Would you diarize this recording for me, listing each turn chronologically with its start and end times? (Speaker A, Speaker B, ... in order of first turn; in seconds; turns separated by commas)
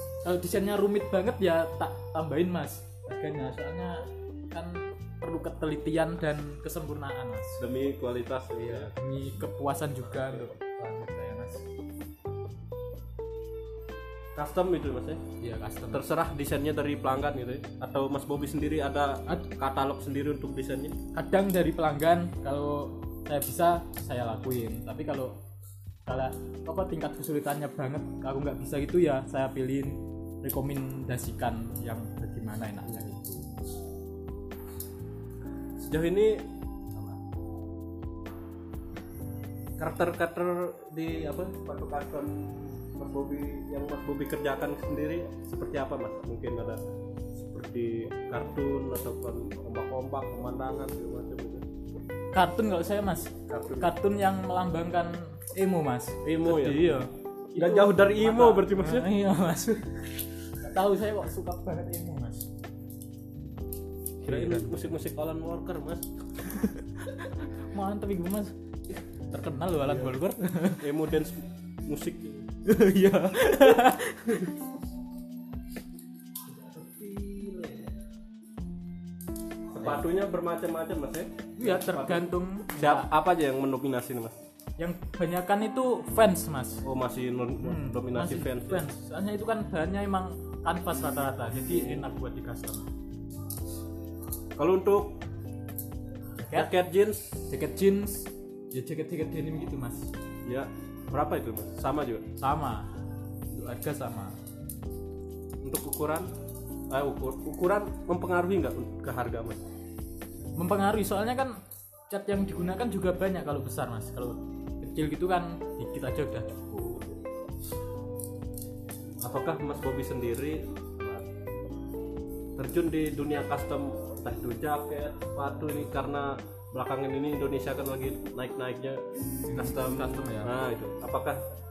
Speaker A: 0.2-7.6, Speaker B: 7.6-8.9, Speaker A: 8.6-11.6, Speaker B: 10.2-10.5, Speaker B: 14.3-15.2, Speaker A: 15.4-16.0, Speaker B: 15.9-21.0, Speaker A: 21.1-25.4, Speaker A: 26.1-33.5, Speaker B: 35.8-36.4, Speaker A: 36.9-37.2, Speaker B: 39.8-47.0, Speaker B: 47.5-51.6, Speaker A: 52.3-60.0, Speaker B: 53.5-53.9, Speaker B: 56.2-57.1, Speaker B: 57.6-59.1, Speaker A: 60.6-62.5, Speaker A: 64.2-64.9, Speaker B: 64.3-66.1, Speaker A: 67.0-68.6, Speaker A: 69.3-70.8, Speaker B: 69.9-70.2, Speaker B: 70.8-72.5, Speaker A: 72.7-74.5, Speaker A: 76.5-78.0, Speaker B: 79.7-82.3, Speaker A: 81.6-83.1, Speaker B: 82.8-84.4, Speaker A: 84.8-86.8, Speaker B: 86.8-88.8, Speaker A: 87.6-92.9, Speaker B: 91.5-92.1, Speaker B: 94.6-95.2, Speaker A: 96.4-96.7, Speaker B: 96.5-97.5, Speaker A: 97.5-100.1, Speaker B: 100.5-102.3, Speaker A: 102.4-102.9, Speaker A: 103.5-104.4, Speaker B: 105.6-106.3, Speaker B: 106.9-109.6, Speaker A: 110.6-111.6, Speaker A: 112.1-117.2, Speaker B: 119.2-121.3, Speaker B: 122.6-129.0, Speaker A: 129.5-130.6, Speaker B: 129.6-131.4